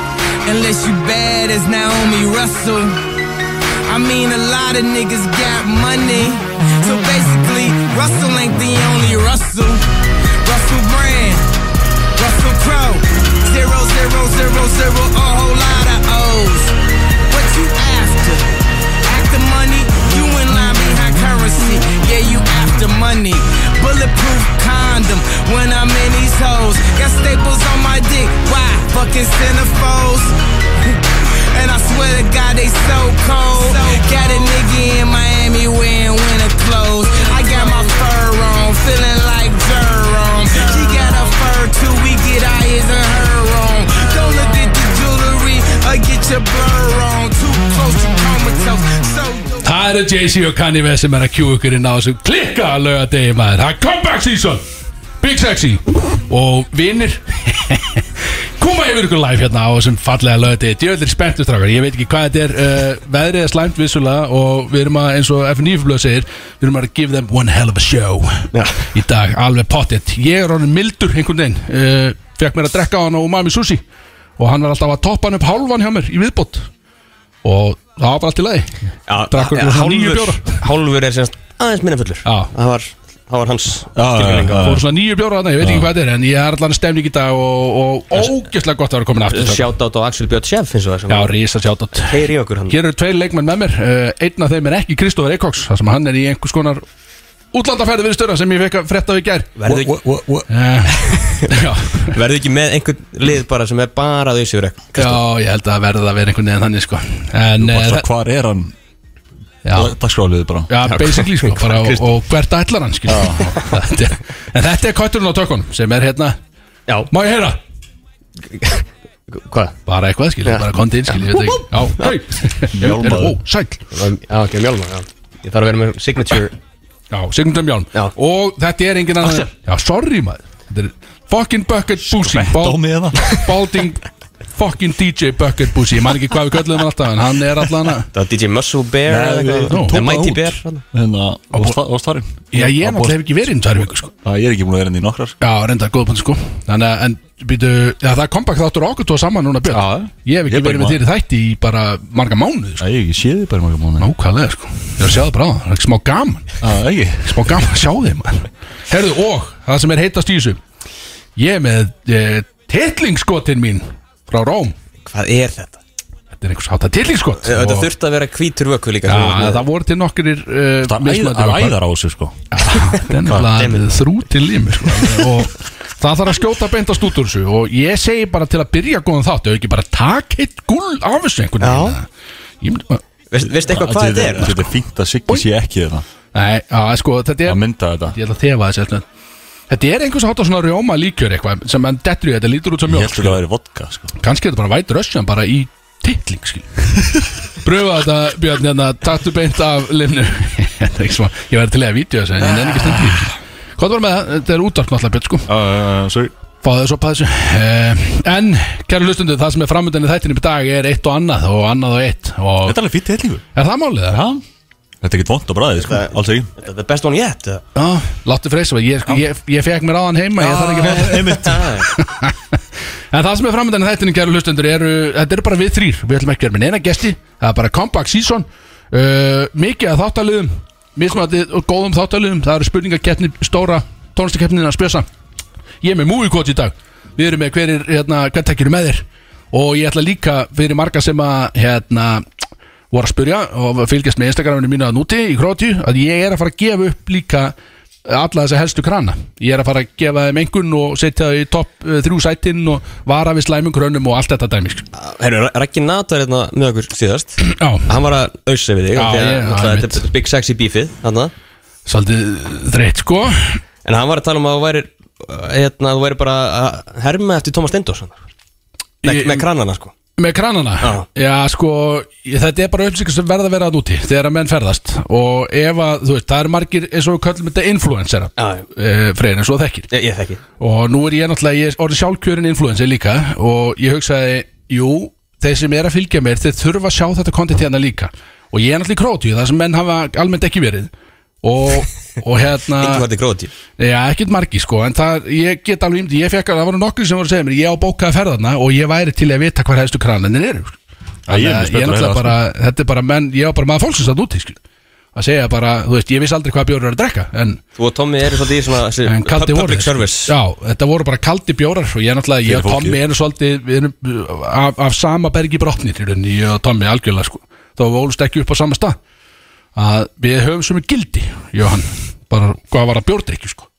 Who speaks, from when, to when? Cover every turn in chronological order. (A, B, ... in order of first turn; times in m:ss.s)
0:00.4-0:03.0 A
0:03.9-0:09.9 A
0:10.4-0:11.5 A
0:12.2-0:16.8 A
0:17.3-0:49.7 A
0:49.6-0:54.6 B
0:55.2-0:58.1 B
0:58.6-1:13.8 B
1:08.5-1:08.8 C
1:14.4-1:16.7 B
1:17.4-1:18.7 B
1:19.1-1:24.8 C
1:19.3-1:20.6 B
1:22.2-1:22.5 B
1:24.0-1:24.9 D
1:24.6-1:29.7 B
1:25.6-1:25.9 D
1:29.3-1:31.3 C
1:31.1-1:36.8 B
1:32.0-1:32.8 C
1:37.5-1:39.5 B
1:39.6-1:40.0 C
1:39.6-1:40.5 D
1:40.5-1:42.1 B
1:41.0-1:41.6 C
1:42.1-1:45.2 C
1:45.0-1:48.1 B
1:47.6-1:48.7 D
1:49.6-1:50.0 B
1:49.7-1:50.7 D
1:50.7-1:56.4 B
1:50.8-1:52.0 C
1:53.1-1:53.6 D
1:57.1-1:57.6 B
1:58.5-1:59.8 C
1:59.9-2:03.9 B
2:00.4-2:02.1 C
2:02.7-2:03.4 D
2:03.9-2:06.5 C
2:07.1-2:18.1 B
2:12.0-2:13.3 D
2:18.1-2:20.8 C
2:19.1-2:25.4 D
2:19.7-2:20.0 B
2:22.5-2:24.1 B
2:25.4-2:32.8 B
2:29.7-2:31.0 D
2:32.8-2:34.1 D
2:34.0-2:36.5 B
2:36.6-2:37.4 D
2:37.2-2:40.6 B
2:41.4-2:44.8 B
2:45.0-2:45.8 C
2:46.4-2:47.9 B
2:47.4-2:49.7 C
2:49.1-2:51.8 B
2:50.8-2:52.4 D
2:52.5-3:02.1 B
2:53.2-2:53.5 D
2:53.6-2:53.9 C
3:01.6-3:02.0 C
3:02.6-3:03.0 B
3:03.3-3:04.7 C
3:03.6-3:06.1 D
3:06.3-3:09.0 B
3:07.5-3:08.2 D
3:09.7-3:13.4 B
3:12.9-3:14.1 D
3:14.2-3:16.7 B
3:17.6-3:25.5 B
3:22.6-3:23.1 D
3:25.5-3:26.3 D
3:26.6-3:32.8 B
3:32.6-3:33.4 D
3:33.6-3:34.2 B
3:34.1-3:34.4 D
3:35.0-3:36.5 D
3:35.8-3:37.6 C
3:37.8-3:42.6 B
3:40.4-3:41.9 D
3:41.0-3:41.8 C
3:43.1-3:55.1 B
3:55.8-4:02.2 B
4:02.9-4:07.5 B
4:08.0-4:14.8 B
4:14.9-4:21.3 C
4:17.4-4:17.9 B
4:18.9-4:20.1 B
4:21.9-4:23.6 B
4:23.8-4:28.2 C
4:29.0-4:29.5 B
4:29.0-4:29.9 C
4:30.2-4:39.9 B
4:30.8-4:31.1 C
4:38.4-4:38.7 C
4:39.9-4:40.4 C
4:40.6-4:50.9 B
4:51.4-4:53.1 B
4:52.8-4:53.5 C
4:53.8-5:00.8 B
5:01.3-5:04.6 B
5:01.3-5:02.4 D
5:05.2-5:07.6 B
5:07.8-5:10.3 C
5:09.1-5:19.0 B
5:12.4-5:13.0 D
5:19.8-5:23.7 B